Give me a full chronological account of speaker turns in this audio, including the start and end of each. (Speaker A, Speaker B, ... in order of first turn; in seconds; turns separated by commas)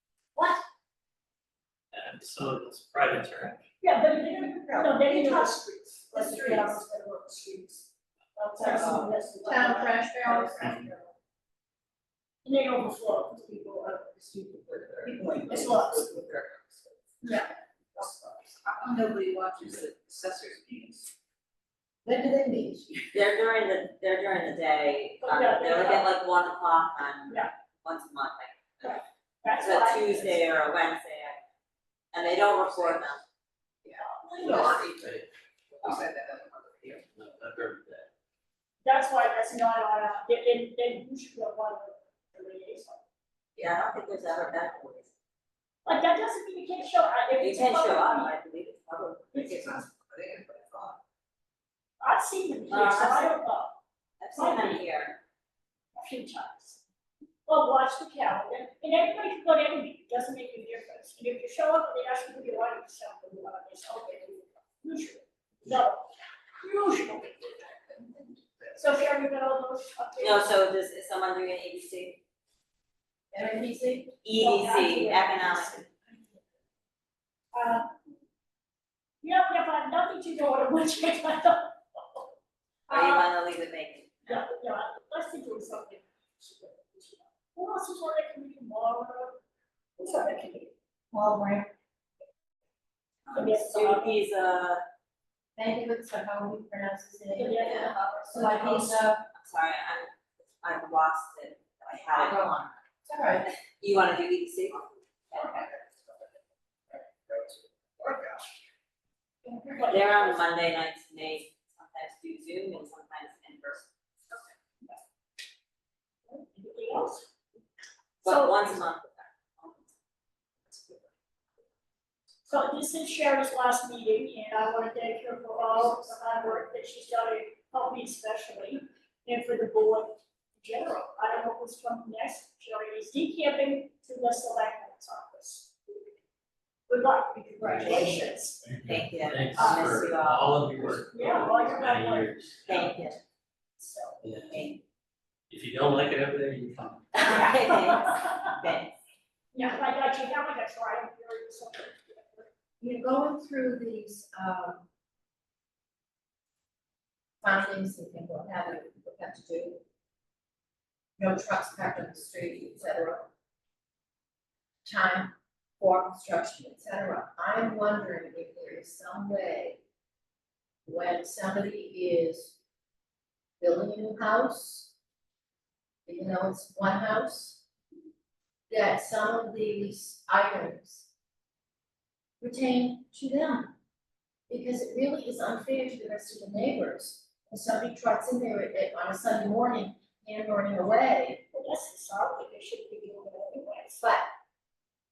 Speaker A: 1.9-3.6, Speaker B: 3.8-11.1, Speaker C: 4.7-5.5, Speaker C: 6.1-6.8, Speaker C: 8.6-10.7, Speaker D: 8.8-9.1, Speaker B: 12.4-13.7, Speaker E: 14.3-16.9, Speaker C: 14.5-15.8, Speaker B: 15.5-16.1, Speaker B: 17.2-18.1, Speaker E: 18.0-21.1, Speaker C: 18.8-19.8, Speaker C: 22.1-23.2, Speaker D: 23.1-29.0, Speaker B: 25.2-26.1, Speaker B: 28.8-30.5, Speaker D: 29.6-31.4, Speaker D: 32.1-33.2, Speaker E: 33.9-34.9, Speaker B: 34.0-34.8, Speaker D: 34.4-35.2, Speaker E: 35.7-37.0, Speaker A: 37.1-38.1, Speaker B: 38.8-43.0, Speaker D: 43.6-45.1, Speaker B: 45.9-48.3, Speaker D: 47.4-49.8, Speaker B: 49.3-49.8, Speaker E: 50.0-51.0, Speaker B: 52.0-53.8, Speaker D: 52.7-53.4, Speaker D: 54.2-55.2, Speaker B: 54.4-54.8, Speaker B: 56.0-56.8, Speaker B: 57.5-66.1, Speaker B: 66.6-67.8, Speaker B: 68.7-70.6, Speaker D: 70.2-72.2, Speaker C: 73.3-74.2, Speaker D: 74.2-75.9, Speaker B: 74.4-75.9, Speaker B: 77.5-77.9, Speaker B: 79.2-82.3, Speaker B: 82.9-83.3, Speaker D: 82.9-84.4, Speaker B: 84.3-89.4, Speaker B: 90.0-90.7, Speaker C: 91.1-91.7, Speaker D: 93.2-94.8, Speaker B: 93.3-94.2, Speaker C: 95.6-99.3, Speaker B: 97.3-98.9, Speaker D: 97.7-98.1, Speaker D: 99.3-102.5, Speaker C: 102.2-103.5, Speaker D: 103.7-105.7, Speaker E: 107.3-108.4, Speaker C: 109.5-109.8, Speaker B: 109.7-110.5, Speaker D: 109.9-113.9, Speaker B: 116.3-117.3, Speaker D: 118.2-119.9, Speaker B: 118.2-118.8, Speaker B: 122.5-135.7, Speaker B: 136.9-138.6, Speaker A: 137.6-142.9, Speaker D: 138.8-140.9, Speaker B: 139.6-139.8, Speaker B: 141.1-142.4, Speaker D: 142.7-143.2, Speaker B: 143.8-144.2, Speaker A: 144.2-144.6, Speaker D: 144.5-144.8, Speaker A: 145.5-147.5, Speaker D: 147.1-148.9, Speaker B: 147.3-148.4, Speaker B: 149.5-152.5, Speaker C: 152.8-154.9, Speaker C: 157.4-159.8, Speaker C: 161.2-163.3, Speaker C: 164.8-169.8, Speaker C: 170.9-172.6, Speaker C: 173.6-174.9, Speaker C: 176.1-177.6, Speaker C: 178.7-181.1, Speaker C: 182.4-183.7, Speaker C: 184.5-191.4, Speaker B: 191.5-194.0, Speaker C: 194.0-194.3